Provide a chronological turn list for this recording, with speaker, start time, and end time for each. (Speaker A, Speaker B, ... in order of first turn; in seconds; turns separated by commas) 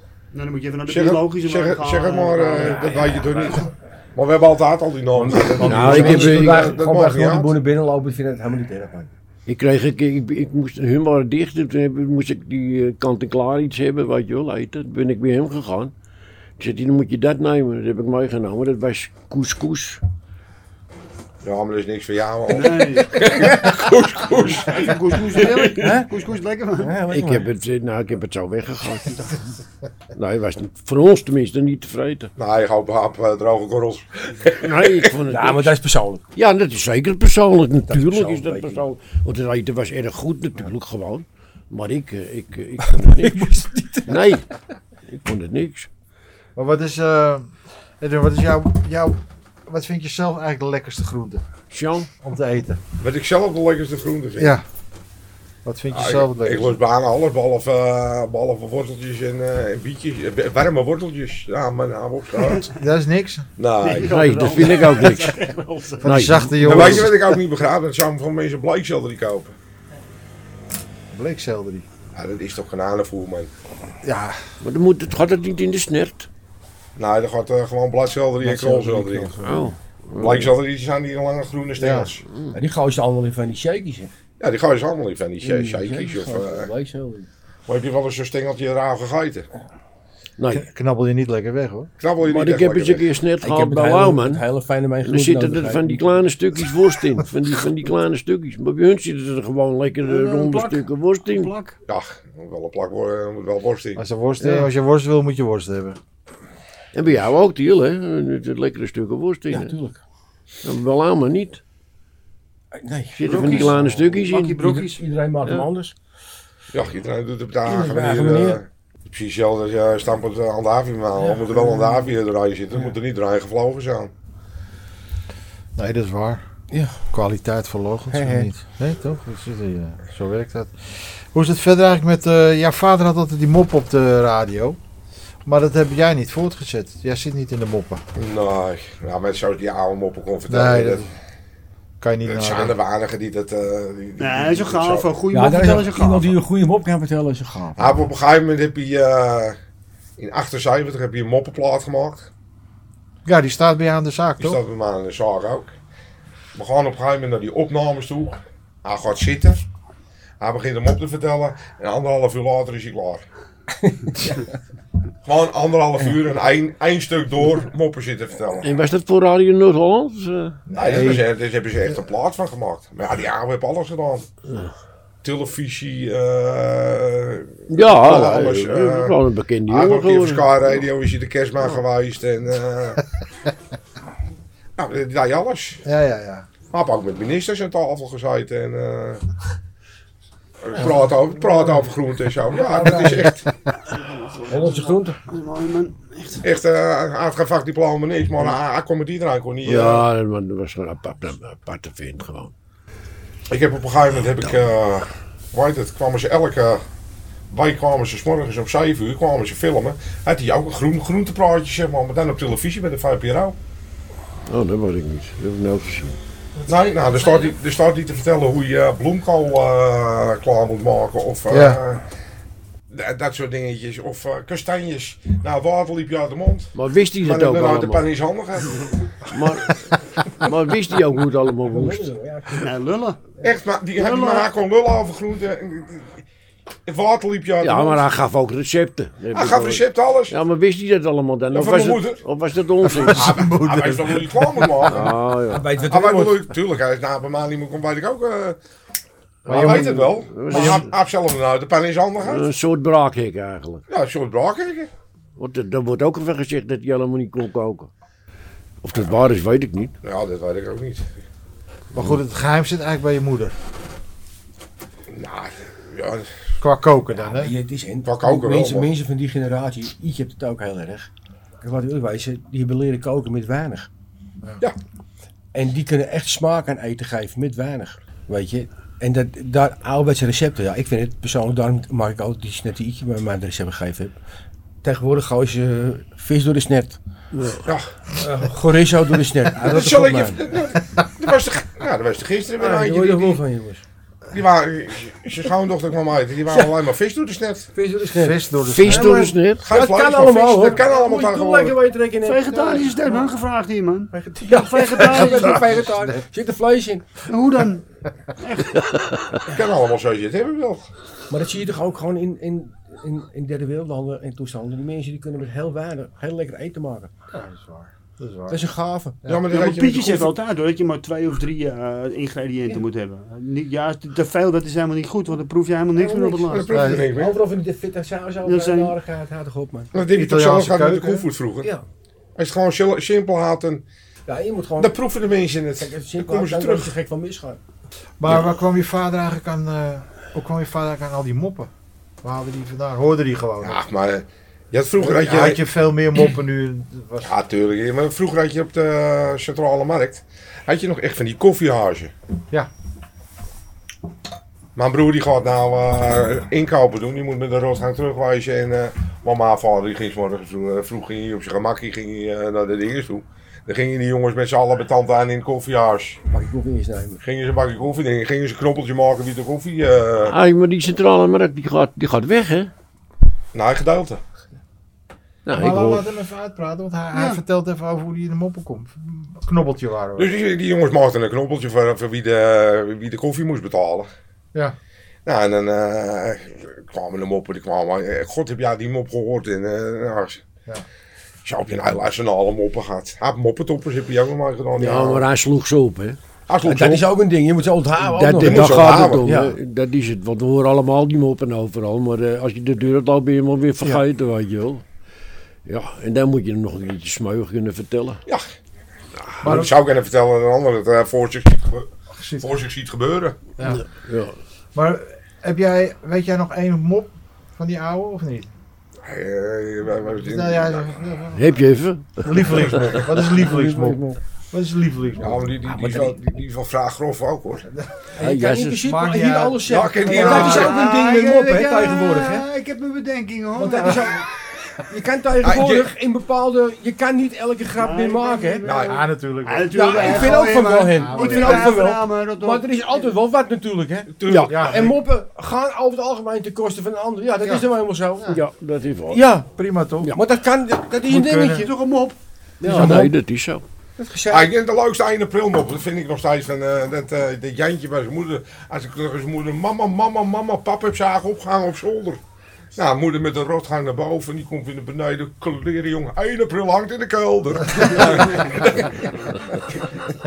Speaker A: 0.3-3.4, Speaker B: 0.9-7.6, Speaker C: 5.2-9.1, Speaker D: 5.6-6.8, Speaker D: 9.5-15.9, Speaker D: 16.6-20.0, Speaker B: 21.4-25.7, Speaker A: 22.5-23.4, Speaker A: 24.4-27.0, Speaker C: 25.8-26.2, Speaker C: 26.8-27.5, Speaker D: 27.1-29.3, Speaker D: 30.1-32.3, Speaker B: 32.4-35.1, Speaker D: 34.6-35.8, Speaker C: 35.3-36.2, Speaker D: 36.4-44.5, Speaker C: 37.9-38.8, Speaker C: 42.9-44.2, Speaker D: 45.1-45.9, Speaker E: 46.6-51.4, Speaker D: 51.7-52.1, Speaker E: 52.2-52.8, Speaker B: 53.0-54.6, Speaker E: 54.4-54.6, Speaker E: 55.6-56.8, Speaker B: 55.9-62.7, Speaker E: 62.7-63.5, Speaker B: 63.6-64.8, Speaker A: 63.8-66.2, Speaker D: 64.0-65.5, Speaker D: 66.0-66.6, Speaker E: 66.0-67.2, Speaker B: 66.6-69.5, Speaker E: 71.1-71.9, Speaker B: 72.1-73.5, Speaker E: 74.0-74.4, Speaker D: 74.6-76.3, Speaker B: 77.0-79.4, Speaker C: 78.4-79.8, Speaker D: 79.4-80.5, Speaker B: 80.2-82.2, Speaker E: 81.8-82.1, Speaker D: 82.3-82.6, Speaker C: 82.5-84.1, Speaker B: 84.4-86.7, Speaker C: 85.4-87.3, Speaker B: 87.7-89.5, Speaker D: 90.4-90.7, Speaker E: 90.5-91.9, Speaker B: 92.0-93.1, Speaker D: 92.2-94.4, Speaker C: 93.4-96.2, Speaker D: 95.0-101.5, Speaker A: 100.1-101.8, Speaker B: 101.9-104.0, Speaker E: 104.0-106.0, Speaker D: 104.4-104.7, Speaker D: 106.9-109.7, Speaker C: 109.5-110.0, Speaker D: 110.6-111.6, Speaker C: 112.7-114.0, Speaker D: 113.2-114.6, Speaker A: 113.3-115.0, Speaker C: 114.5-115.9, Speaker B: 116.7-124.1, Speaker C: 117.7-118.6, Speaker C: 121.2-122.1, Speaker E: 125.8-126.4, Speaker C: 126.7-127.0, Speaker E: 127.1-134.8, Speaker C: 128.1-128.5, Speaker E: 135.4-138.0, Speaker B: 138.2-141.1, Speaker E: 140.5-141.1, Speaker E: 142.0-142.8, Speaker B: 142.2-145.2, Speaker A: 144.2-146.4, Speaker C: 145.3-148.0, Speaker B: 147.8-149.6, Speaker B: 150.2-152.3, Speaker E: 153.2-154.6, Speaker B: 154.4-155.7, Speaker B: 156.6-159.7, Speaker B: 160.4-163.2, Speaker C: 163.8-164.5, Speaker B: 165.2-168.8, Speaker D: 168.6-170.6, Speaker E: 170.7-171.3, Speaker B: 170.7-174.3, Speaker D: 174.5-174.7, Speaker B: 175.2-179.2, Speaker D: 177.7-180.9, Speaker B: 179.7-183.0, Speaker B: 184.8-185.8, Speaker E: 185.8-186.5, Speaker B: 186.7-189.2, Speaker B: 190.6-193.4, Speaker C: 192.5-193.4, Speaker A: 193.8-196.4, Speaker C: 194.5-195.2, Speaker B: 196.4-200.1, Speaker D: 199.7-202.5, Speaker B: 203.5-206.8, Speaker B: 207.5-213.6, Speaker D: 214.5-216.2, Speaker B: 216.6-222.0, Speaker E: 221.5-221.8, Speaker B: 222.9-228.9, Speaker D: 226.8-228.1, Speaker D: 229.2-232.1, Speaker C: 231.7-232.7, Speaker A: 232.6-233.2, Speaker B: 233.4-236.2, Speaker A: 234.0-234.5, Speaker B: 236.9-238.1, Speaker D: 237.6-243.4, Speaker B: 239.3-240.3, Speaker B: 241.5-242.2, Speaker E: 243.0-244.8, Speaker B: 243.0-245.2, Speaker D: 244.9-245.7, Speaker C: 245.3-246.5, Speaker B: 245.8-248.6, Speaker E: 249.5-250.9, Speaker D: 249.5-250.9, Speaker B: 249.5-252.5, Speaker D: 252.2-253.8, Speaker B: 253.9-254.9, Speaker D: 255.4-257.9, Speaker D: 258.8-259.9, Speaker B: 260.0-261.2, Speaker E: 261.9-263.6, Speaker B: 265.1-266.4, Speaker E: 266.6-267.5, Speaker C: 267.2-271.1, Speaker B: 268.0-268.9, Speaker C: 271.6-273.9, Speaker C: 275.5-284.2, Speaker C: 284.8-287.0, Speaker D: 287.3-287.7, Speaker B: 287.6-287.9, Speaker C: 288.2-290.4, Speaker B: 289.6-293.4, Speaker C: 292.6-293.8, Speaker B: 294.3-297.7, Speaker C: 297.8-302.8, Speaker E: 298.1-299.3, Speaker D: 298.7-299.6, Speaker B: 299.6-301.8, Speaker A: 302.2-305.8, Speaker E: 302.5-303.3, Speaker C: 304.1-307.2, Speaker E: 305.1-306.3, Speaker A: 307.3-307.8, Speaker A: 308.4-308.8, Speaker D: 308.9-309.4, Speaker B: 309.5-310.9, Speaker C: 311.3-317.1, Speaker E: 317.3-318.6, Speaker C: 318.5-319.2, Speaker B: 319.3-320.3, Speaker A: 319.5-326.7, Speaker B: 326.4-327.4, Speaker E: 326.7-327.1, Speaker C: 327.1-329.9, Speaker A: 328.4-329.0, Speaker B: 329.9-331.7, Speaker E: 330.1-331.3, Speaker B: 332.4-333.8, Speaker C: 334.3-335.0, Speaker B: 334.8-337.0, Speaker C: 335.8-337.6, Speaker E: 338.2-341.7, Speaker E: 342.2-343.8, Speaker B: 343.6-345.7, Speaker E: 345.0-347.3, Speaker B: 347.2-352.1, Speaker B: 354.8-366.2, Speaker C: 366.3-367.2, Speaker B: 367.2-370.4, Speaker D: 370.3-372.7, Speaker B: 373.5-374.2, Speaker D: 375.5-376.1, Speaker E: 375.5-380.3, Speaker A: 377.1-377.4, Speaker B: 380.2-384.1, Speaker B: 385.3-390.4, Speaker B: 391.4-395.3, Speaker D: 394.8-396.2, Speaker B: 396.5-397.1, Speaker C: 396.6-399.6, Speaker D: 398.0-404.8, Speaker B: 398.4-399.3, Speaker D: 405.7-408.2, Speaker B: 409.4-413.4, Speaker E: 409.4-409.7, Speaker E: 412.1-412.4, Speaker E: 413.6-413.8, Speaker D: 413.6-414.4, Speaker E: 414.8-418.5, Speaker B: 419.0-420.9, Speaker E: 420.2-421.6, Speaker D: 421.4-423.0, Speaker E: 422.2-425.5, Speaker C: 423.3-424.2, Speaker B: 425.2-427.7, Speaker C: 425.7-426.2, Speaker E: 427.8-428.1, Speaker C: 428.2-432.5, Speaker D: 428.2-428.8, Speaker E: 428.8-430.7, Speaker B: 429.6-430.8, Speaker A: 430.4-434.2, Speaker C: 433.6-434.3, Speaker C: 434.9-438.7, Speaker B: 435.4-435.9, Speaker A: 437.8-443.1, Speaker B: 438.6-439.0, Speaker E: 438.8-441.8, Speaker C: 439.7-448.4, Speaker B: 444.1-445.0, Speaker D: 444.3-444.5, Speaker E: 444.5-444.9, Speaker E: 447.4-448.4, Speaker D: 448.3-449.2, Speaker C: 449.1-449.5, Speaker E: 449.6-450.1, Speaker C: 450.1-451.7, Speaker E: 451.1-451.7, Speaker A: 451.5-452.2, Speaker C: 452.6-453.1, Speaker D: 452.6-453.6, Speaker E: 452.7-453.0, Speaker C: 454.0-454.5, Speaker B: 454.3-462.2, Speaker B: 462.8-469.8